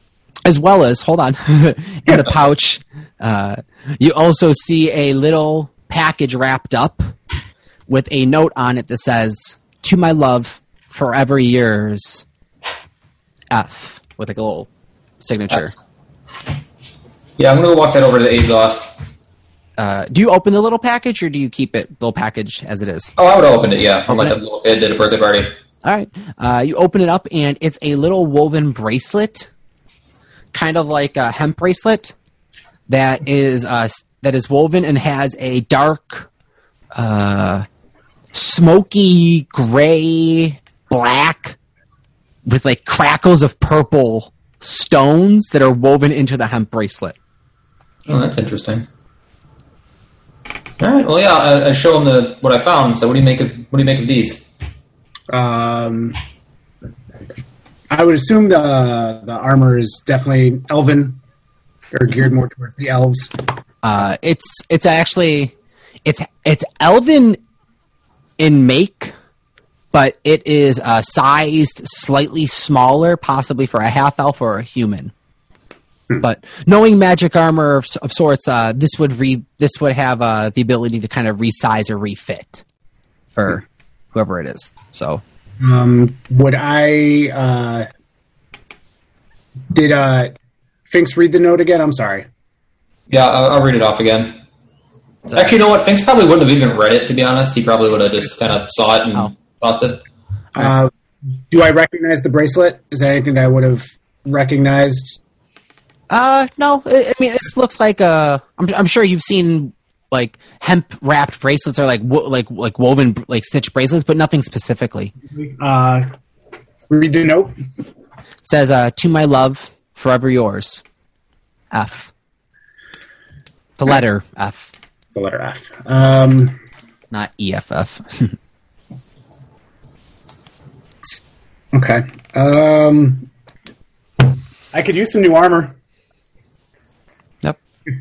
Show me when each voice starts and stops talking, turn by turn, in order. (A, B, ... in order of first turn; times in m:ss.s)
0:00.4-0:07.1 A
0:07.9-0:12.2 A
0:13.5-0:14.7 A
0:15.2-0:15.7 A
0:17.4-0:18.9 B
0:19.8-0:23.1 A
0:23.2-0:25.5 B
0:24.1-0:24.4 A
0:25.8-0:29.5 A
0:30.5-0:32.1 A
0:32.9-0:36.3 A
0:36.9-0:37.6 A
0:38.3-0:41.6 A
0:42.4-0:47.2 A
0:48.1-0:48.8 B
0:50.8-0:54.4 B
0:55.3-0:56.2 C
0:57.9-1:01.2 C
1:01.9-1:03.4 C
1:03.8-1:05.5 A
1:06.0-1:07.4 A
1:08.4-1:09.1 A
1:09.9-1:15.1 A
1:16.2-1:22.6 A
1:23.3-1:25.2 A
1:25.6-1:27.9 C
1:29.7-1:30.4 C
1:30.9-1:32.2 C
1:33.1-1:34.4 B
1:35.3-1:35.5 A
1:35.3-1:40.0 B
1:40.5-1:40.9 C
1:41.5-1:45.2 C
1:46.1-1:55.1 A
1:55.4-1:56.1 C
1:56.9-1:57.5 C
1:58.4-2:00.8 A
2:01.7-2:02.1 A
2:03.8-2:04.7 A
2:05.1-2:06.6 C
2:07.1-2:08.4 A
2:11.7-2:13.3 C
2:14.2-2:15.8 C